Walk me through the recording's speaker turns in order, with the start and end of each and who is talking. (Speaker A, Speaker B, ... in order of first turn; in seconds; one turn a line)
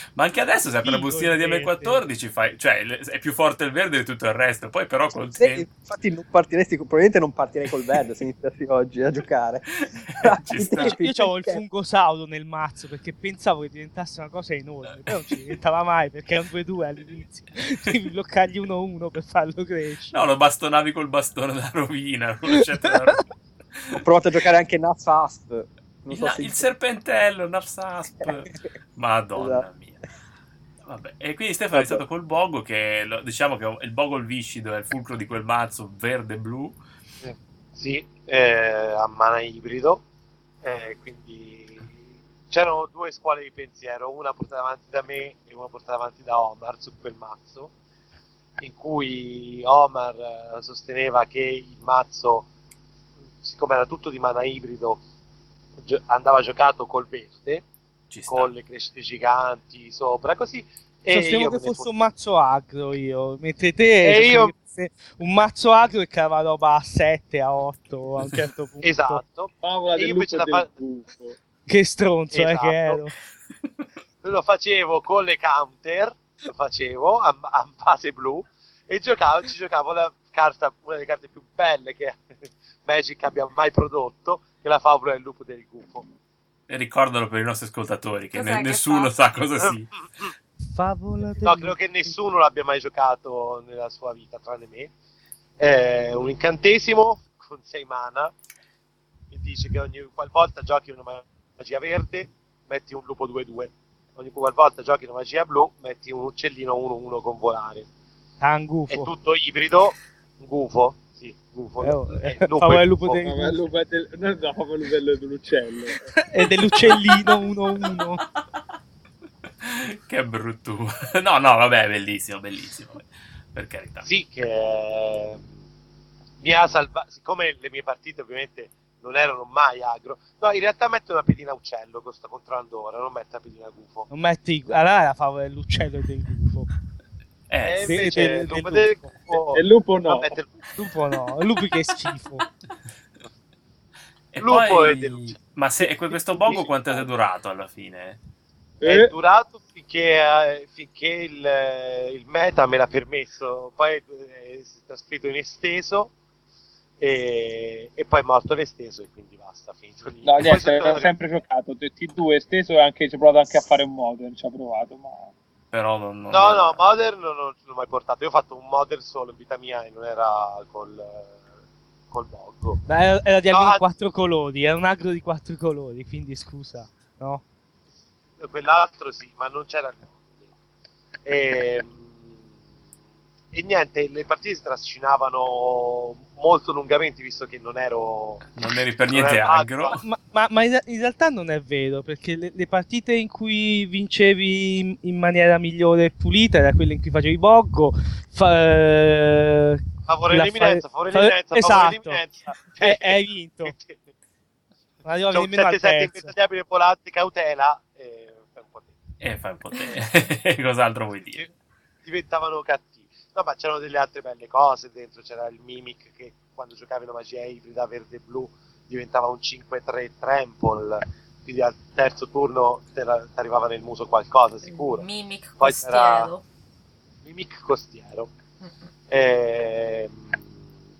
Speaker A: 0.1-5.7
Speaker B: 0.8-2.0
Speaker C: 5.3-11.6
Speaker A: 9.8-11.0
Speaker B: 10.7-20.3
Speaker A: 20.1-24.0
Speaker B: 22.6-23.2
Speaker C: 23.9-26.7
Speaker A: 26.1-30.0
Speaker C: 29.4-29.6
Speaker A: 30.8-36.8
Speaker C: 31.7-32.0
Speaker D: 37.2-40.0
Speaker D: 40.6-41.9
Speaker D: 42.5-47.7
Speaker D: 48.6-52.5
Speaker D: 53.4-55.0
Speaker D: 55.8-57.6
Speaker A: 58.1-58.5
Speaker D: 58.3-62.1
Speaker B: 61.1-69.2
Speaker D: 64.0-64.5
Speaker D: 68.8-70.7
Speaker E: 69.6-71.4
Speaker B: 71.7-73.1
Speaker D: 72.3-73.1
Speaker D: 74.2-82.2
Speaker D: 82.8-86.0
Speaker A: 86.7-89.9
Speaker F: 88.3-89.1
Speaker D: 89.7-90.3
Speaker B: 90.7-92.1
Speaker D: 91.4-94.9
Speaker D: 95.6-98.3
Speaker D: 99.3-107.9
Speaker B: 108.4-109.1
Speaker D: 108.9-113.2
Speaker B: 111.8-113.6
Speaker E: 113.2-116.1
Speaker B: 116.2-118.2
Speaker A: 119.6-124.0
Speaker D: 124.0-125.5
Speaker D: 126.4-134.1
Speaker B: 134.1-136.7
Speaker A: 137.5-138.2
Speaker D: 137.6-140.6
Speaker B: 137.8-139.1
Speaker E: 139.5-140.3
Speaker B: 140.7-142.4
Speaker A: 144.3-148.2
Speaker D: 144.4-145.4
Speaker D: 146.4-147.1
Speaker E: 148.8-149.1
Speaker D: 148.8-156.1
Speaker D: 157.0-161.1
Speaker E: 160.2-165.3
Speaker A: 165.7-166.8
Speaker D: 166.3-171.3
Speaker D: 172.1-172.8
Speaker B: 172.8-177.4
Speaker D: 173.5-173.8
Speaker D: 178.4-180.5
Speaker D: 181.2-182.3
Speaker D: 183.5-188.5
Speaker A: 188.5-190.0
Speaker D: 189.1-190.0
Speaker B: 190.0-202.2
Speaker D: 200.1-204.0
Speaker B: 202.7-203.7
Speaker B: 205.0-206.3
Speaker D: 205.3-208.9
Speaker A: 209.2-211.5
Speaker D: 211.1-211.5
Speaker D: 212.0-225.1
Speaker F: 224.6-226.4
Speaker D: 225.6-226.3
Speaker D: 227.2-228.3
Speaker D: 229.1-230.4